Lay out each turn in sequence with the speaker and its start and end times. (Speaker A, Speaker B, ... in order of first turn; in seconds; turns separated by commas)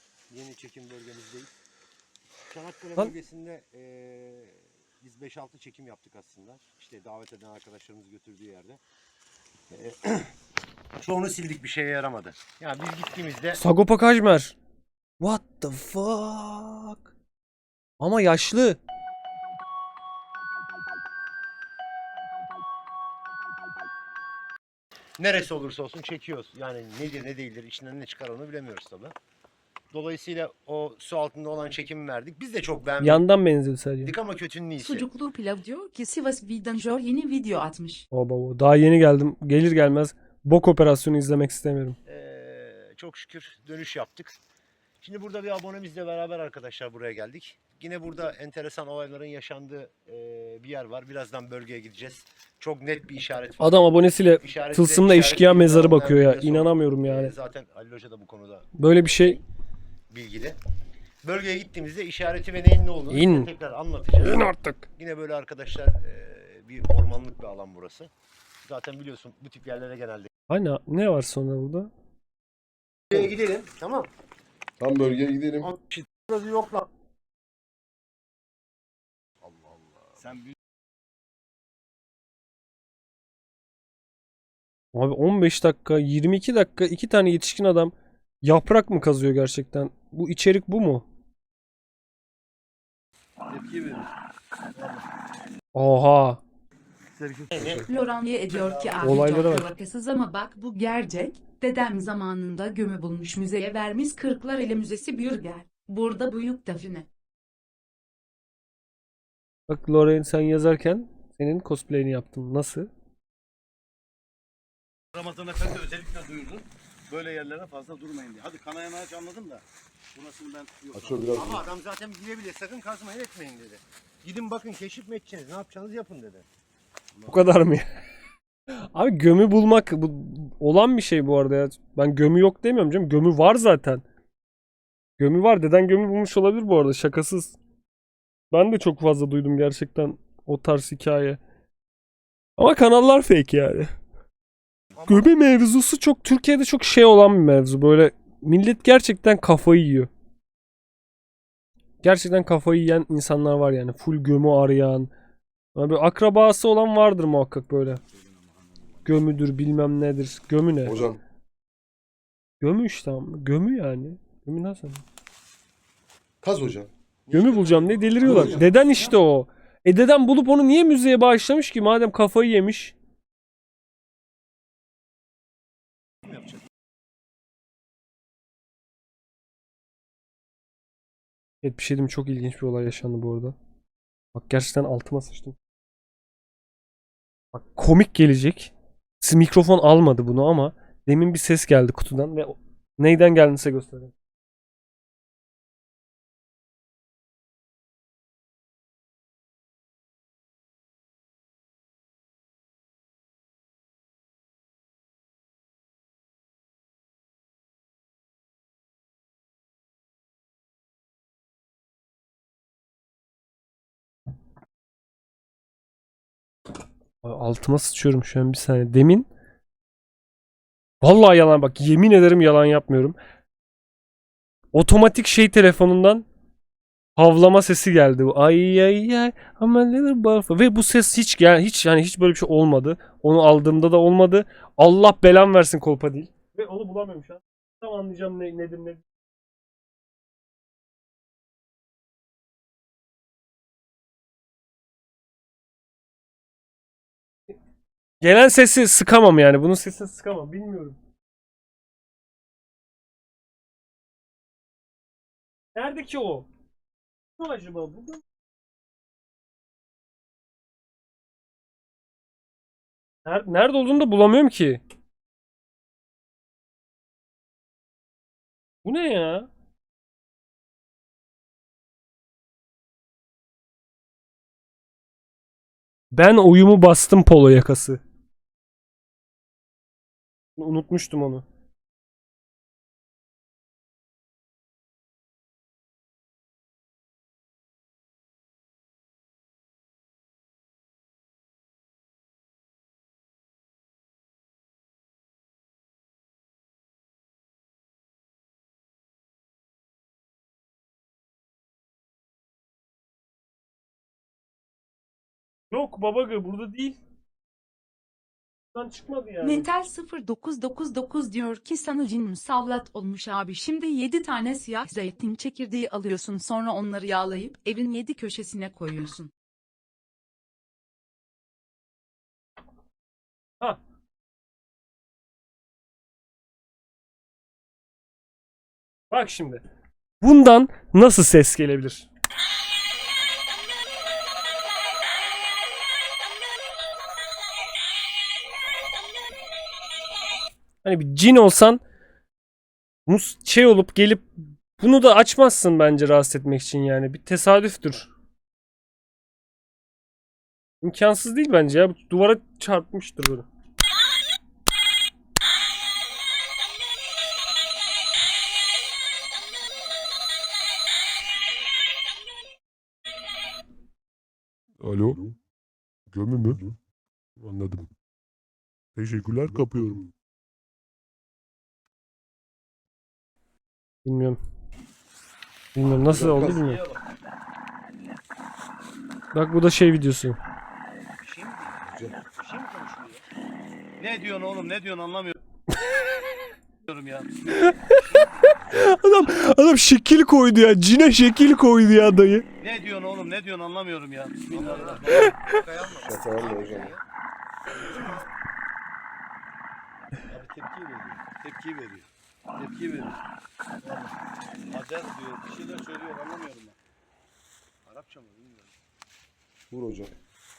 Speaker A: 0.3-1.5, Speaker A: 2.5-8.8, Speaker A: 9.7-10.3, Speaker A: 11.0-13.6, Speaker B: 13.5-14.6, Speaker B: 15.2-17.1, Speaker B: 18.0-18.8, Speaker A: 25.2-29.1, Speaker A: 29.9-33.2, Speaker B: 33.0-34.1, Speaker A: 34.0-35.0, Speaker C: 34.8-38.0, Speaker B: 38.1-42.0, Speaker A: 42.0-44.4, Speaker A: 45.0-59.4, Speaker B: 53.6-57.3, Speaker B: 58.7-59.4, Speaker A: 60.1-60.6, Speaker A: 61.2-68.1, Speaker B: 63.1-63.5, Speaker B: 64.2-64.9, Speaker A: 68.6-70.3, Speaker B: 70.5-71.9, Speaker A: 73.1-74.1, Speaker D: 74.8-75.7, Speaker A: 75.6-76.8, Speaker E: 80.2-80.5, Speaker B: 84.9-91.0, Speaker E: 93.5-94.1, Speaker E: 94.7-95.0, Speaker B: 95.7-96.4, Speaker E: 97.1-99.1, Speaker D: 97.5-97.8, Speaker C: 97.5-107.1, Speaker B: 99.0-99.7, Speaker B: 109.7-112.9, Speaker E: 115.1-119.6, Speaker E: 120.1-121.2, Speaker D: 120.9-121.6, Speaker A: 121.3-126.5, Speaker B: 127.3-127.9, Speaker B: 128.7-134.0, Speaker B: 135.2-137.6, Speaker B: 138.5-141.4, Speaker B: 142.6-143.9, Speaker A: 144.9-145.3, Speaker B: 145.1-150.1, Speaker B: 152.0-155.1, Speaker B: 155.8-158.0, Speaker B: 159.1-161.0, Speaker D: 160.8-161.2, Speaker B: 162.6-165.0, Speaker D: 166.4-166.9, Speaker A: 167.3-169.2, Speaker B: 167.3-172.9, Speaker E: 168.2-168.5, Speaker D: 168.2-168.7, Speaker A: 176.2-176.6, Speaker B: 181.6-183.6, Speaker B: 184.3-185.6, Speaker B: 187.5-194.1, Speaker B: 217.2-219.3, Speaker B: 221.0-223.2, Speaker B: 224.7-226.3, Speaker B: 227.2-239.0, Speaker B: 248.2-251.0, Speaker B: 255.8-256.5, Speaker B: 257.4-258.2, Speaker B: 263.2-264.8, Speaker B: 268.8-269.5, Speaker B: 276.1-278.0, Speaker B: 280.6-281.4, Speaker B: 305.7-306.9, Speaker B: 308.7-309.6, Speaker C: 309.4-319.3, Speaker B: 329.1-329.6, Speaker B: 330.2-332.1, Speaker B: 340.8-341.8, Speaker B: 343.1-348.1, Speaker B: 350.8-353.4, Speaker F: 364.8-365.3, Speaker F: 366.1-366.7, Speaker F: 367.4-367.9, Speaker F: 368.9-370.1, Speaker D: 369.4-370.0, Speaker B: 374.0-374.4, Speaker B: 375.8-376.8, Speaker D: 375.9-376.7, Speaker B: 379.3-380.4, Speaker A: 381.2-383.2, Speaker D: 381.9-382.2, Speaker E: 384.0-385.4, Speaker E: 386.8-387.4, Speaker B: 387.5-387.9, Speaker A: 387.9-388.6, Speaker B: 388.6-392.4, Speaker E: 392.6-395.3, Speaker A: 394.5-397.0, Speaker D: 395.9-396.9, Speaker E: 400.3-403.2, Speaker E: 403.8-404.1, Speaker E: 404.7-406.8, Speaker A: 407.9-408.7, Speaker D: 409.7-410.1